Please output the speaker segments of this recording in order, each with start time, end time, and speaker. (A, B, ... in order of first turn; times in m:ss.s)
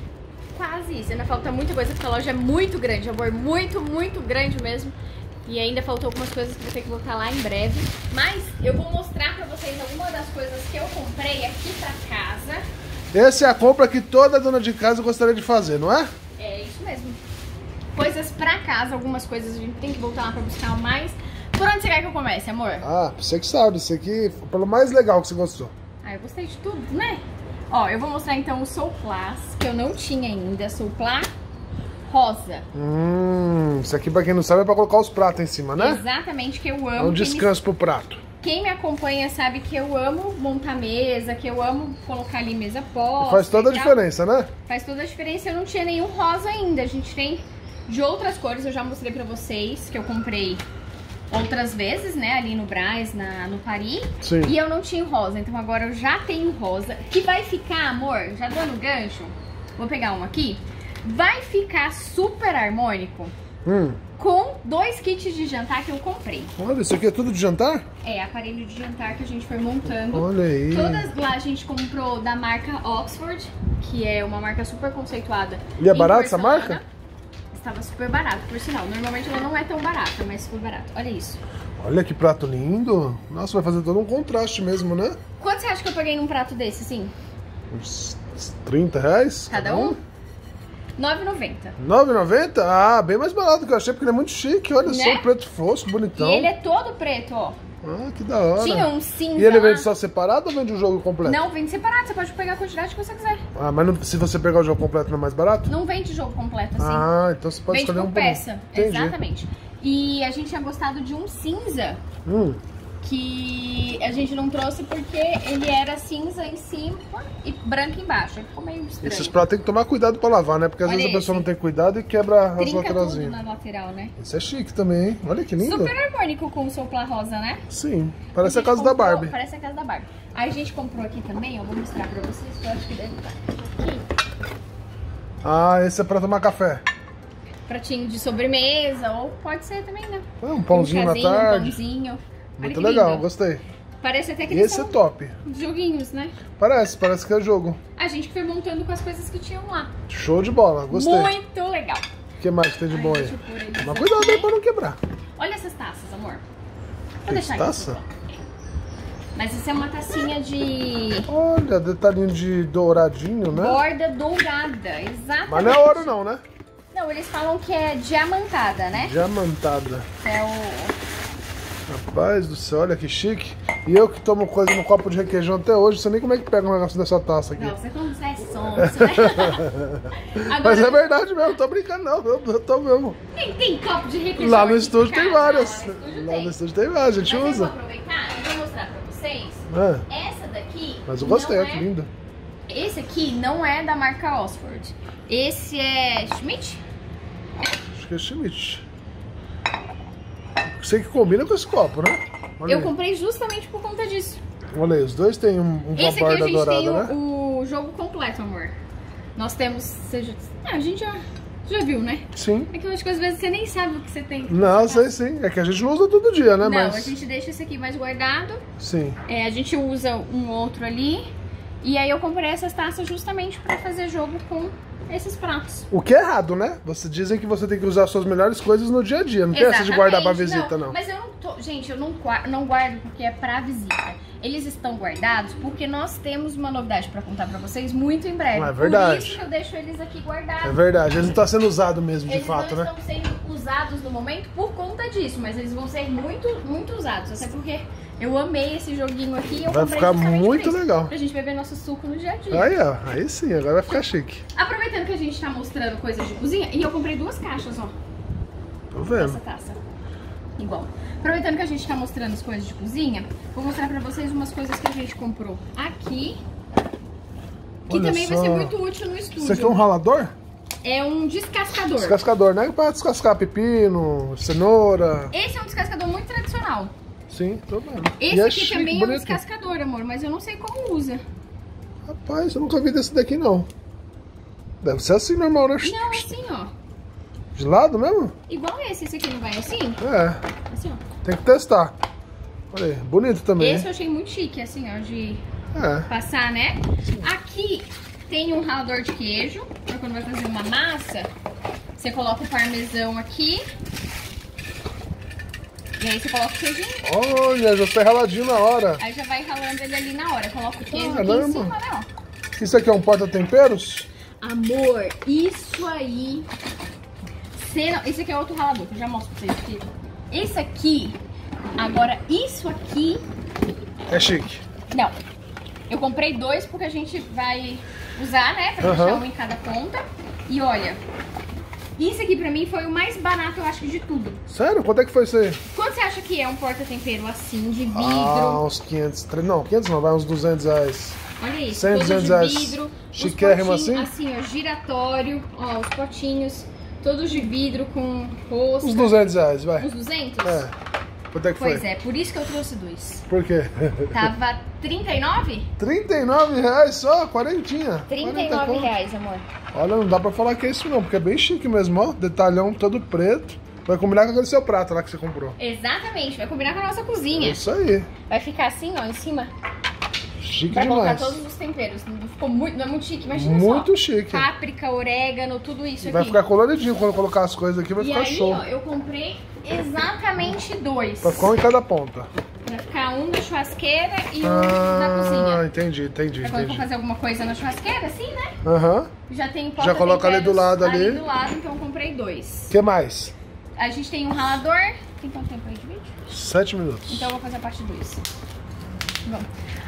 0:00.5-0:05.0 A
0:05.5-0:12.6 A
0:13.1-0:16.1 B
0:16.4-0:17.2 A
0:18.0-0:22.9 A
0:22.8-0:25.7 B
0:26.0-0:31.3 A
0:32.1-0:32.7 A
0:32.7-0:36.0 B
0:35.8-0:37.5 A
0:37.0-0:38.2 B
0:38.4-0:44.0 A
0:43.2-0:44.5 B
0:44.7-0:50.6 A
0:51.3-1:03.3 A
0:54.2-0:54.5 B
1:03.6-1:04.0 B
1:04.2-1:06.5 A
1:06.6-1:07.9 B
1:08.0-1:16.8 A
1:09.9-1:11.1 B
1:15.8-1:16.8 B
1:17.5-1:21.4 A
1:21.8-1:25.2 B
1:25.4-1:27.1 A
1:27.7-1:30.0 B
1:29.5-1:30.0 A
1:31.0-1:31.8 A
1:31.8-1:36.5 B
1:34.8-1:35.3 A
1:36.2-1:37.6 A
1:37.8-1:41.4 B
1:38.6-1:39.9 A
1:41.2-1:43.4 A
1:43.6-1:45.7 B
1:45.7-1:47.1 A
1:46.8-1:49.2 B
1:47.7-1:52.0 A
1:52.3-1:52.6 B
1:53.0-1:59.4 A
1:59.0-2:03.4 B
2:00.8-2:01.5 A
2:02.6-2:04.1 A
2:04.2-2:05.9 B
2:05.6-2:07.6 A
2:07.7-2:09.3 B
2:08.4-2:14.1 A
2:15.4-2:16.8 B
2:17.7-2:23.3 A
2:20.4-2:21.8 B
2:22.6-2:23.6 B
2:24.0-2:26.4 A
2:24.5-2:25.4 B
2:26.6-2:27.8 B
2:28.0-2:29.9 A
2:30.1-2:31.3 B
2:30.9-2:32.0 A
2:32.4-2:35.0 B
2:32.9-2:34.5 A
2:35.4-2:36.4 A
2:37.2-2:38.1 A
2:37.3-2:38.0 B
2:39.4-2:41.3 A
2:41.3-2:43.8 B
2:43.5-2:46.1 A
2:45.5-2:46.4 B
2:46.9-2:49.2 A
2:48.9-2:50.1 B
2:50.2-2:51.0 A
2:51.9-2:57.8 B
2:57.6-2:59.6 A
2:58.8-3:03.2 B
3:00.2-3:01.5 A
3:03.3-3:06.6 A
3:04.4-3:07.7 B
3:07.2-3:11.9 A
3:09.7-3:10.0 B
3:11.1-3:12.1 B
3:12.7-3:16.8 A
3:17.9-3:18.8 B
3:20.8-3:22.9 B
3:22.6-3:24.4 A
3:24.7-3:27.1 B
3:26.0-3:28.8 A
3:29.4-3:35.1 A
3:32.4-3:32.7 B
3:34.5-3:37.2 B
3:36.6-3:38.6 A
3:38.8-3:39.2 B
3:39.3-3:41.3 A
3:41.8-3:45.9 A
3:45.9-3:51.0 B
3:49.5-4:00.8 A
3:58.6-3:59.4 B
4:00.6-4:02.9 B
4:02.2-4:12.7 A
4:09.6-4:11.1 B
4:12.5-4:14.4 B
4:14.6-4:17.9 A
4:18.9-4:19.4 B
4:19.2-4:19.8 A
4:20.6-4:26.4 A
4:27.9-4:29.8 A
4:27.9-4:28.8 B
4:29.4-4:30.3 B
4:30.8-4:32.2 A
4:32.0-4:35.3 B
4:35.3-4:36.9 A
4:37.3-4:39.4 B
4:38.2-4:41.2 A
4:42.1-4:43.7 B
4:44.8-4:46.3 B
4:45.8-4:46.7 A
4:47.6-4:48.3 B
4:48.5-4:50.0 A
4:50.0-4:50.4 B
4:50.7-4:51.0 A
4:51.2-4:52.0 B
4:52.7-4:53.9 B
4:53.6-4:55.4 A
4:55.8-4:56.1 B
4:56.1-5:01.3 A
5:02.0-5:03.7 A
5:06.0-5:07.0 A
5:07.0-5:09.0 B
5:09.0-5:12.1 A
5:10.9-5:11.7 B
5:12.6-5:14.1 B
5:14.4-5:16.5 A
5:17.6-5:21.2 A
5:21.8-5:23.2 A
5:24.1-5:24.6 B
5:25.9-5:31.0 A
5:28.8-5:29.2 B
5:32.0-5:34.4 A
5:34.5-5:35.6 B
5:35.7-5:38.6 A
5:37.9-5:41.2 B
5:41.4-5:49.2 A
5:41.7-5:44.1 B
5:48.8-5:49.9 B
5:49.8-5:50.7 A
5:50.4-5:50.7 B
5:51.3-5:51.8 B
5:51.6-5:53.3 A
5:53.3-5:54.3 B
5:54.1-5:55.7 A
5:55.8-5:58.9 B
5:58.1-5:59.5 A
5:59.7-6:05.6 B
6:05.6-6:07.6 A
6:07.3-6:08.1 B
6:08.3-6:09.5 A
6:10.4-6:11.4 B
6:10.7-6:16.4 A
6:13.3-6:14.5 B
6:16.0-6:18.6 B
6:18.0-6:21.5 A
6:21.2-6:22.3 B
6:22.6-6:25.6 A
6:24.4-6:26.8 B
6:26.4-6:28.6 A
6:28.6-6:29.1 B
6:29.3-6:32.7 A
6:29.8-6:31.2 B
6:32.7-6:33.3 B
6:33.8-6:36.1 A
6:36.3-6:37.3 B
6:37.1-6:38.2 A